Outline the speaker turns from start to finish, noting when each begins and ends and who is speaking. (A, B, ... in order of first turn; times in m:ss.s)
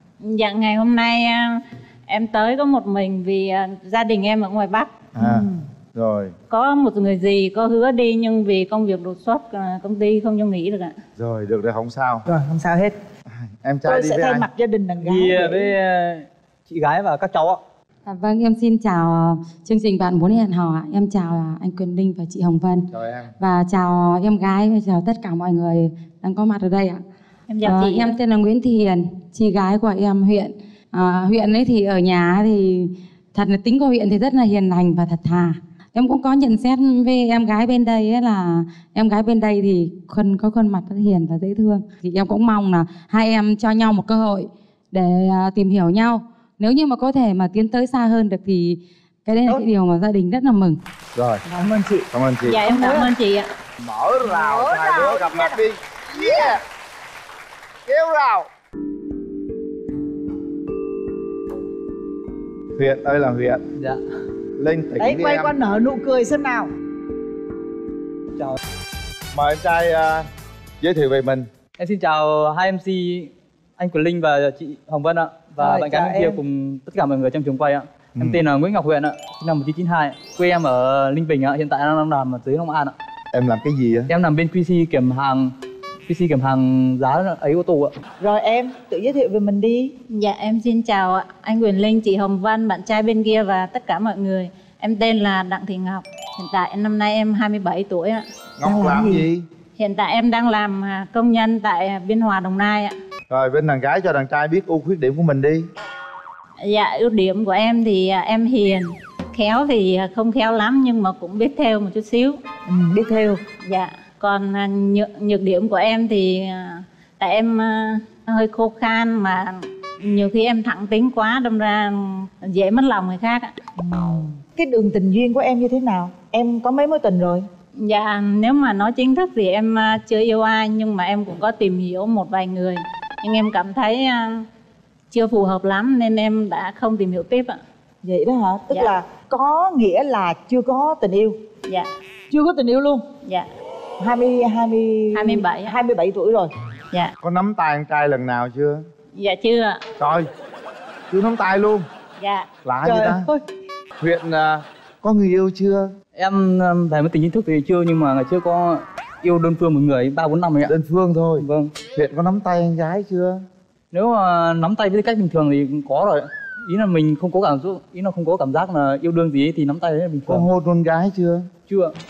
0:00.2-0:04.9 A
0:05.1-0:06.3 B
0:05.2-0:05.5 C
0:06.5-0:10.9 A
0:11.2-0:12.2 B
0:12.3-0:13.0 C
0:13.3-0:14.5 B
0:13.8-0:15.7 C
0:15.2-0:17.6 D
0:18.0-0:22.9 E
0:22.9-0:23.3 B
0:23.4-0:27.0 E
0:27.5-0:28.1 A
0:27.6-0:50.8 E
0:51.1-0:51.4 B
0:51.5-0:52.1 C
0:52.1-0:52.6 B
0:52.4-0:53.5 A
0:52.6-0:53.1 C
0:53.8-0:56.6 B
0:54.2-0:55.6 C
0:56.2-0:56.4 C
0:57.8-0:58.5 B
1:02.8-1:03.6 B
1:04.6-1:05.5 B
1:05.0-1:06.7 C
1:09.3-1:10.3 B
1:10.8-1:11.5 B
1:11.8-1:22.9 D
1:15.6-1:16.4 C
1:18.2-1:18.4 B
1:23.3-1:24.1 B
1:24.1-1:25.5 D
1:26.1-1:27.9 D
1:28.2-1:29.9 C
1:30.1-1:38.2 A
1:38.6-1:39.4 B
1:38.6-1:39.2 C
1:39.8-1:42.9 A
1:43.3-1:45.7 B
1:46.6-1:52.4 A
1:52.7-1:53.4 C
1:53.6-2:03.5 A
2:03.8-2:07.4 C
2:07.8-2:14.4 A
2:15.1-2:17.6 A
2:18.0-2:21.4 C
2:22.3-2:23.0 C
2:24.0-2:26.5 C
2:25.1-2:25.8 A
2:27.2-2:28.8 B
2:29.2-2:29.8 A
2:30.0-2:30.3 B
2:31.1-2:31.8 B
2:32.2-2:32.5 A
2:32.6-2:33.3 B
2:32.8-2:33.4 C
2:34.0-2:35.9 B
2:36.1-2:40.7 D
2:40.6-2:43.4 B
2:41.4-2:41.7 D
2:43.9-2:50.4 D
2:50.3-2:51.4 B
2:51.7-2:52.0 D